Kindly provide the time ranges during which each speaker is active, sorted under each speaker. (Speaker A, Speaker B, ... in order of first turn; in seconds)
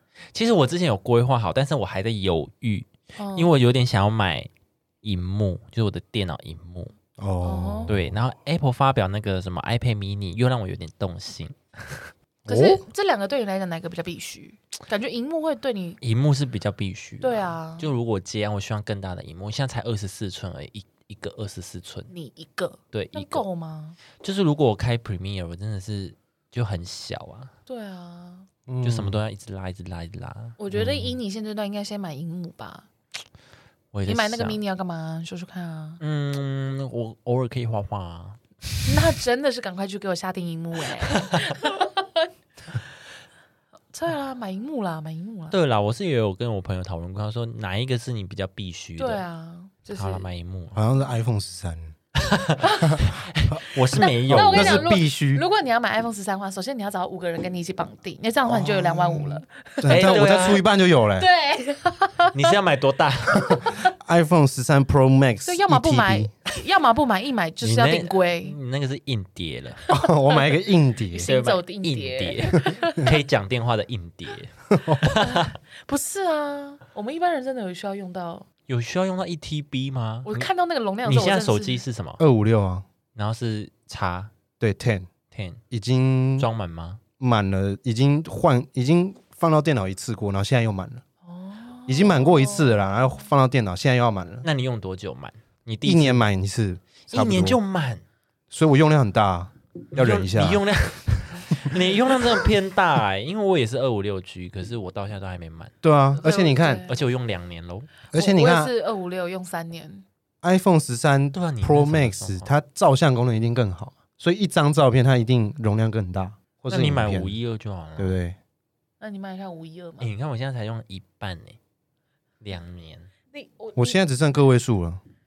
Speaker A: 0.3-4.5, 5.0-6.9, 7.9-12.1, 16.0-22.1, 22.9-23.4, 24.2-27.5, 28.8-30.6, 33.9-34.6, 36.0-38.9, 41.1-41.4, 45.5-49.2, 49.9-50.8, 52.2-54.9, 59.9-60.6, 62.3-63.6, 67.6-69.8, 71.2-75.5, 78.7-80.5, 81.0-82.2, 83.2-84.3, 85.3-85.6, 86.4-87.0, 94.4-96.2, 97.1-98.0, 99.9-105.7, 106.9-107.9, 111.3-112.5, 116.7-118.2, 120.0-121.6, 122.4-123.1
Speaker B: 3.2-3.5, 7.4-7.9, 12.5-16.0, 17.2-17.9, 22.1-24.0, 27.7-28.5, 30.6-32.9, 34.1-36.0, 38.9-42.3, 43.9-45.6, 49.0-50.3, 52.6-53.0, 54.0-60.2, 61.2-62.5, 63.5-63.9, 65.5-68.6, 69.9-70.5, 71.1-73.2, 75.2-78.5, 80.2-81.8, 91.3-92.8, 106.2-107.0, 108.1-110.0, 119.0-120.1, 123.3-124.0
Speaker C: 7.2-8.1, 12.5-12.8, 28.7-29.2, 30.7-31.1, 50.7-52.0, 52.9-53.6, 54.3-55.4, 58.5-61.3, 63.5-66.3, 69.9-71.3, 74.7-75.1, 82.2-82.9, 84.6-85.1, 85.7-86.5, 87.2-91.0, 91.9-94.5, 95.8-97.6, 98.5-100.6, 105.8-106.8, 108.1-108.7, 110.4-117.3, 118.0-118.4, 123.8-125.0